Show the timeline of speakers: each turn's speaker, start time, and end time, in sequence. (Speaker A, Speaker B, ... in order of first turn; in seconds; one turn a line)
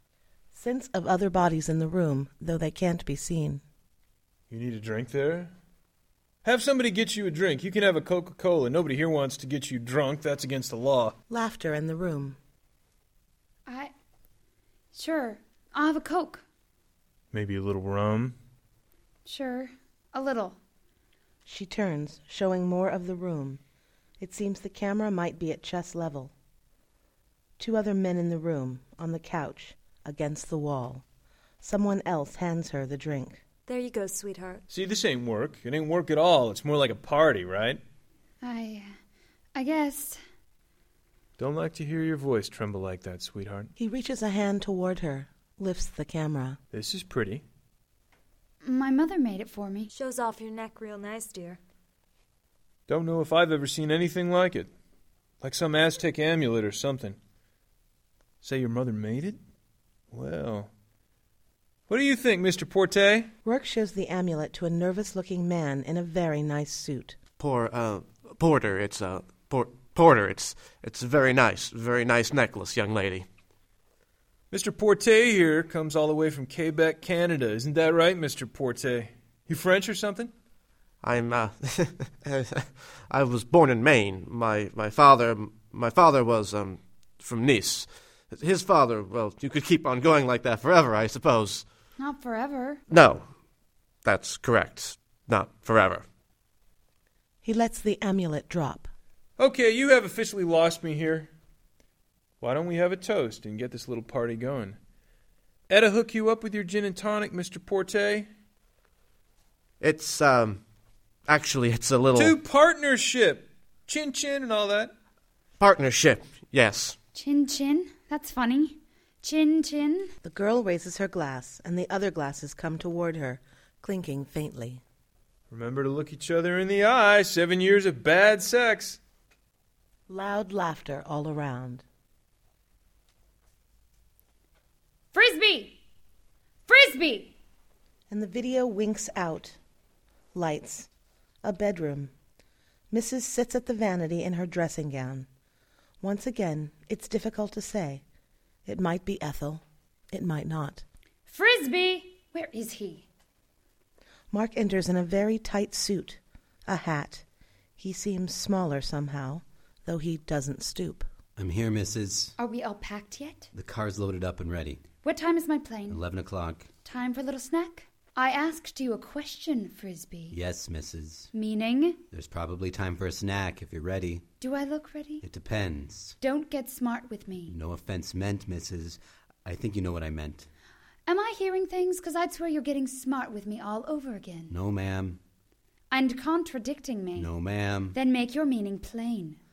Speaker A: 0.5-3.6
Speaker B: 4.5-5.5
Speaker B: 6.4-11.2
Speaker A: 11.3-12.4
Speaker C: 13.7-13.9
Speaker C: 14.9-16.4
Speaker B: 17.3-18.4
Speaker C: 19.3-20.6
Speaker A: 21.5-23.6
Speaker A: 24.2-26.3
Speaker A: 27.6-31.0
Speaker A: 31.6-33.4
Speaker D: 33.7-34.7
Speaker B: 34.7-37.8
Speaker C: 38.4-38.9
Speaker C: 39.5-40.2
Speaker B: 41.4-43.7
Speaker A: 43.8-46.6
Speaker B: 46.7-47.4
Speaker C: 48.6-49.9
Speaker D: 49.9-51.6
Speaker B: 52.9-54.7
Speaker B: 55.4-57.2
Speaker B: 58.4-59.4
Speaker B: 60.1-60.7
Speaker B: 61.9-63.3
Speaker A: 63.5-67.2
Speaker E: 67.4-73.3
Speaker B: 74.5-80.3
Speaker E: 81.0-91.7
Speaker C: 92.0-92.8
Speaker E: 92.9-93.3
Speaker E: 94.0-96.0
Speaker A: 97.4-98.9
Speaker B: 99.4-101.3
Speaker B: 102.4-104.8
Speaker B: 105.7-108.3
Speaker E: 109.8-110.6
Speaker E: 111.3-112.4
Speaker B: 112.2-114.9
Speaker E: 115.6-117.0
Speaker C: 117.2-120.1
Speaker A: 120.2-124.8
Speaker B: 125.5-129.0
Speaker A: 130.1-131.8
Speaker C: 135.1-135.8
Speaker C: 136.7-137.3
Speaker A: 138.1-139.6
Speaker A: 140.3-140.9
Speaker A: 141.4-142.1
Speaker A: 142.9-145.3
Speaker A: 146.0-148.0
Speaker A: 148.7-150.8
Speaker C: 151.3-153.1
Speaker A: 154.3-157.2
Speaker A: 157.8-161.1
Speaker F: 161.4-162.3
Speaker C: 162.4-163.5
Speaker F: 163.5-164.8
Speaker C: 165.0-166.0
Speaker F: 165.9-166.7
Speaker C: 166.8-170.4
Speaker F: 170.3-171.3
Speaker C: 171.3-172.0
Speaker F: 172.1-174.2
Speaker C: 174.4-175.2
Speaker F: 175.2-176.2
Speaker C: 176.2-177.6
Speaker F: 177.5-180.5
Speaker C: 181.1-184.6
Speaker F: 184.5-185.2
Speaker C: 185.9-187.3
Speaker F: 187.2-188.0
Speaker C: 187.9-189.4